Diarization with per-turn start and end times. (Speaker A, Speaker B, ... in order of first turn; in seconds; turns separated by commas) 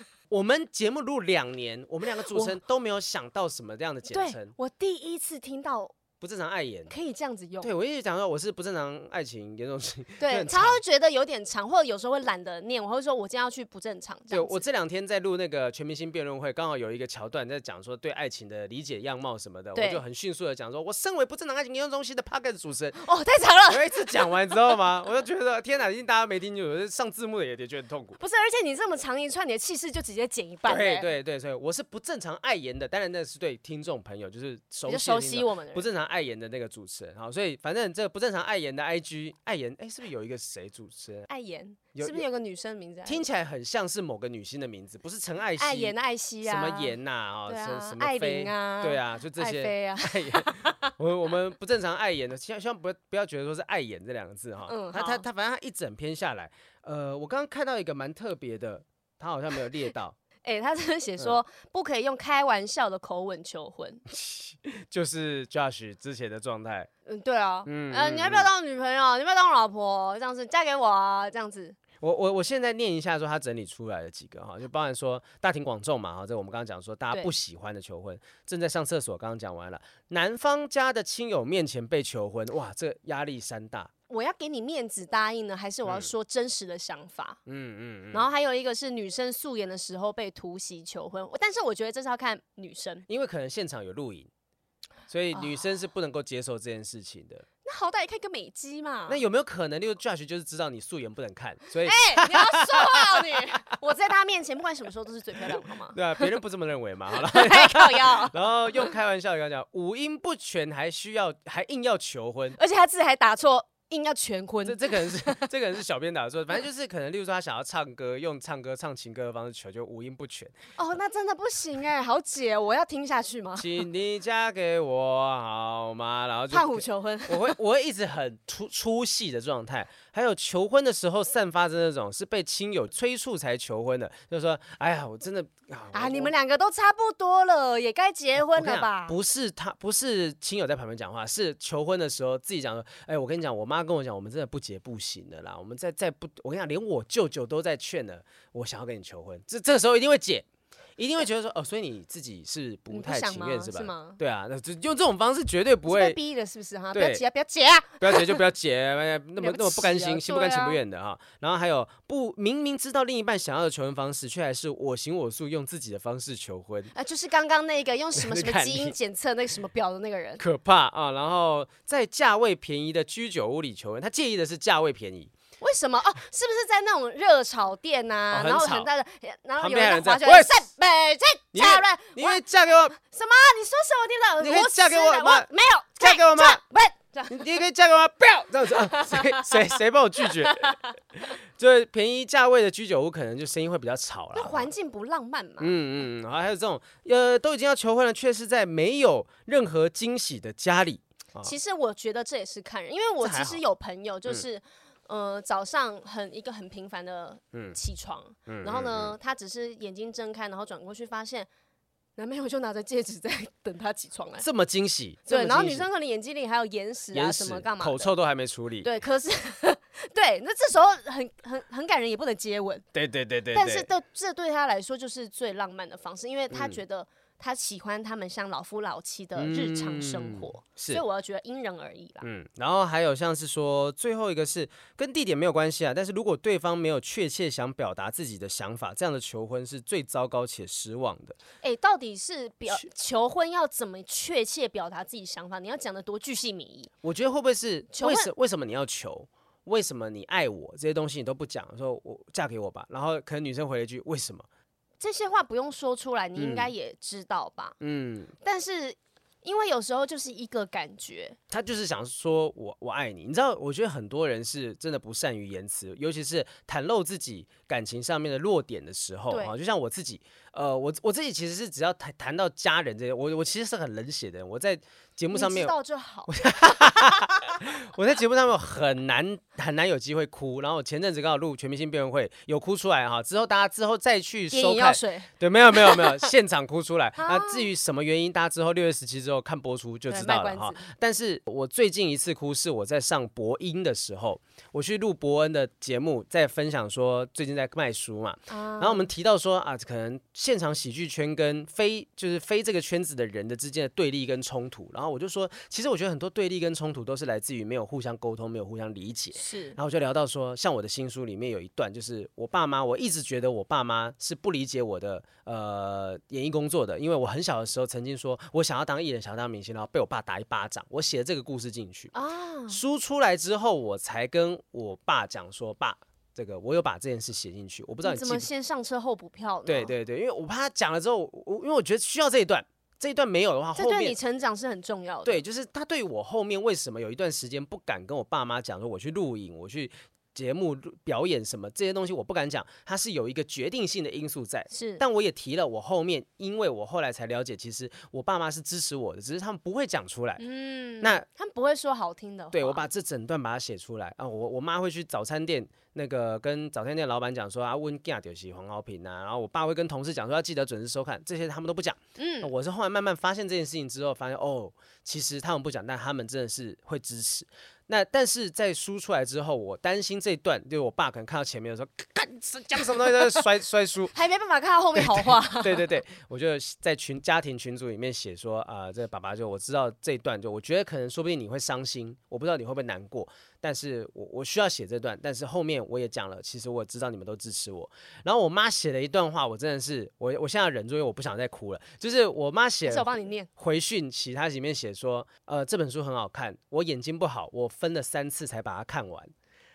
Speaker A: 0.3-4.5, Speaker B: 2.3-2.6, Speaker B: 4.1-6.0, Speaker A: 6.2-6.9, Speaker B: 6.9-7.7, Speaker A: 7.6-10.8, Speaker B: 10.2-14.6, Speaker A: 14.3-23.0, Speaker B: 19.8-20.0, Speaker B: 23.0-24.1, Speaker A: 23.7-28.2, Speaker B: 28.2-31.1, Speaker A: 30.7-41.3, Speaker B: 34.9-35.9, Speaker B: 41.3-43.2, Speaker A: 42.0-42.2, Speaker A: 43.1-60.2, Speaker B: 45.6-50.9, Speaker B: 54.7-55.3, Speaker B: 60.4-64.0, Speaker A: 64.1-66.9, Speaker B: 67.1-71.8, Speaker A: 67.7-68.5, Speaker A: 72.0-83.9, Speaker B: 84.1-87.4, Speaker A: 87.5-88.3, Speaker B: 88.1-93.1, Speaker A: 93.1-94.3, Speaker A: 95.1-97.5, Speaker B: 97.7-99.2, Speaker A: 99.1-103.6, Speaker B: 101.8-106.3, Speaker A: 105.5-112.6, Speaker B: 107.1-108.8, Speaker B: 112.6-115.5, Speaker A: 114.7-120.5, Speaker B: 120.8-123.8, Speaker A: 123.6-136.3, Speaker B: 126.5-127.6, Speaker B: 135.9-139.2, Speaker A: 138.5-156.2, Speaker B: 152.9-154.2, Speaker B: 155.9-158.4, Speaker A: 156.9-157.2, Speaker A: 158.0-166.9, Speaker B: 159.4-160.8, Speaker B: 166.9-170.4, Speaker A: 168.2-168.9, Speaker A: 170.4-175.3, Speaker B: 175.6-182.4, Speaker A: 178.3-178.9, Speaker A: 179.6-180.7, Speaker A: 181.5-183.0, Speaker B: 183.0-187.5, Speaker A: 184.4-186.6, Speaker A: 187.3-190.8, Speaker B: 188.7-189.7, Speaker B: 190.2-190.9, Speaker A: 191.3-194.7, Speaker B: 194.3-195.7, Speaker A: 195.6-201.5, Speaker B: 201.4-211.5, Speaker A: 203.2-203.6, Speaker A: 208.5-209.1, Speaker B: 212.2-214.5, Speaker A: 214.4-215.9, Speaker B: 215.3-218.1, Speaker A: 217.1-218.9, Speaker B: 218.8-222.8, Speaker A: 222.9-223.9, Speaker B: 223.5-232.3, Speaker A: 226.5-226.8, Speaker A: 229.4-231.0, Speaker A: 232.2-241.4, Speaker B: 241.6-246.9, Speaker A: 247.0-254.5, Speaker B: 247.9-248.3, Speaker B: 255.0-257.8, Speaker A: 256.4-256.7, Speaker A: 257.8-258.3, Speaker B: 258.4-261.4, Speaker A: 261.5-275.7, Speaker B: 269.3-269.5, Speaker B: 275.3-277.4, Speaker A: 276.3-322.1, Speaker B: 284.5-286.3, Speaker B: 287.2-287.7, Speaker B: 290.1-290.9, Speaker B: 298.5-299.1, Speaker B: 309.4-309.8, Speaker B: 322.1-322.8, Speaker A: 322.7-328.5, Speaker B: 328.0-329.9, Speaker A: 329.7-334.2, Speaker B: 333.8-335.4, Speaker A: 335.3-350.4, Speaker B: 344.7-345.0, Speaker B: 350.4-352.8, Speaker A: 352.5-374.1, Speaker B: 362.2-362.5, Speaker B: 374.1-375.9, Speaker A: 375.0-399.3, Speaker B: 392.9-393.5